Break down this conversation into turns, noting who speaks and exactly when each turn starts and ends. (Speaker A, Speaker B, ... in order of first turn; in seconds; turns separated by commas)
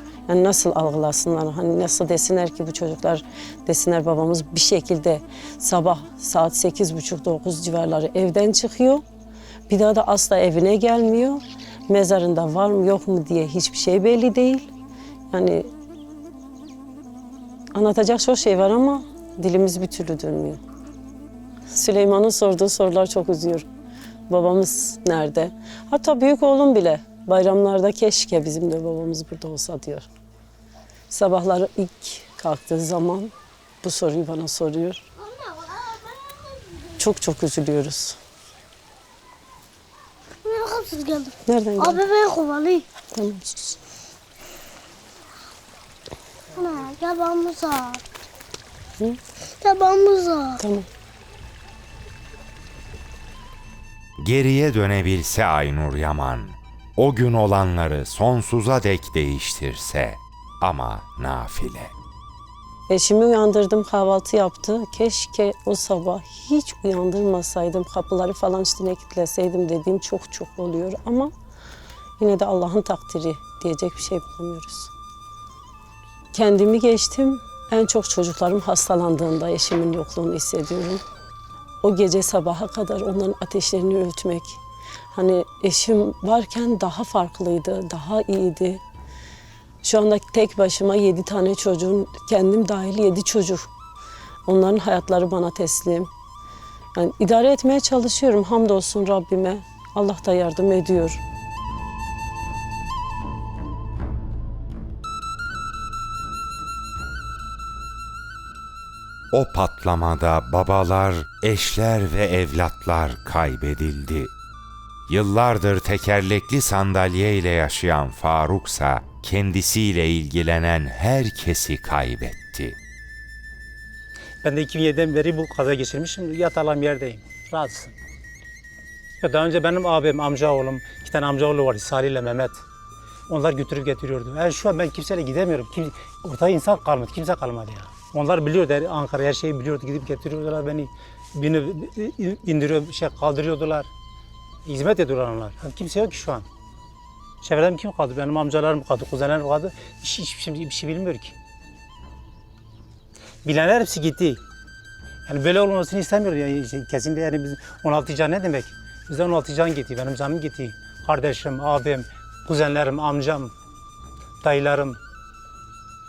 Speaker A: 0.3-9.0, Speaker A: 9.7-14.7, Speaker A: 15.3-15.7, Speaker A: 17.7-20.6, Speaker A: 21.7-23.7, Speaker A: 24.3-30.1, Speaker A: 31.1-35.1, Speaker A: 37.0-38.2, Speaker B: 40.4-42.9, Speaker A: 41.5-42.0, Speaker A: 43.1-43.8, Speaker B: 46.5-48.0, Speaker B: 49.6-50.6, Speaker A: 50.6-50.9, Speaker C: 54.2-61.9, Speaker A: 62.9-71.3, Speaker A: 72.2-74.9, Speaker A: 76.3-81.0, Speaker A: 81.8-84.6, Speaker A: 85.1-88.8, Speaker A: 89.8-93.7, Speaker A: 94.5-96.1, Speaker A: 96.9-101.2, Speaker C: 109.3-114.3, Speaker C: 115.1-122.8, Speaker D: 124.4-128.0, Speaker D: 129.2-132.6, Speaker D: 133.3-143.9, Speaker D: 144.6-146.5, Speaker D: 147.4-151.3, Speaker D: 153.4-154.4, Speaker D: 155.2-163.5, Speaker D: 164.4-165.0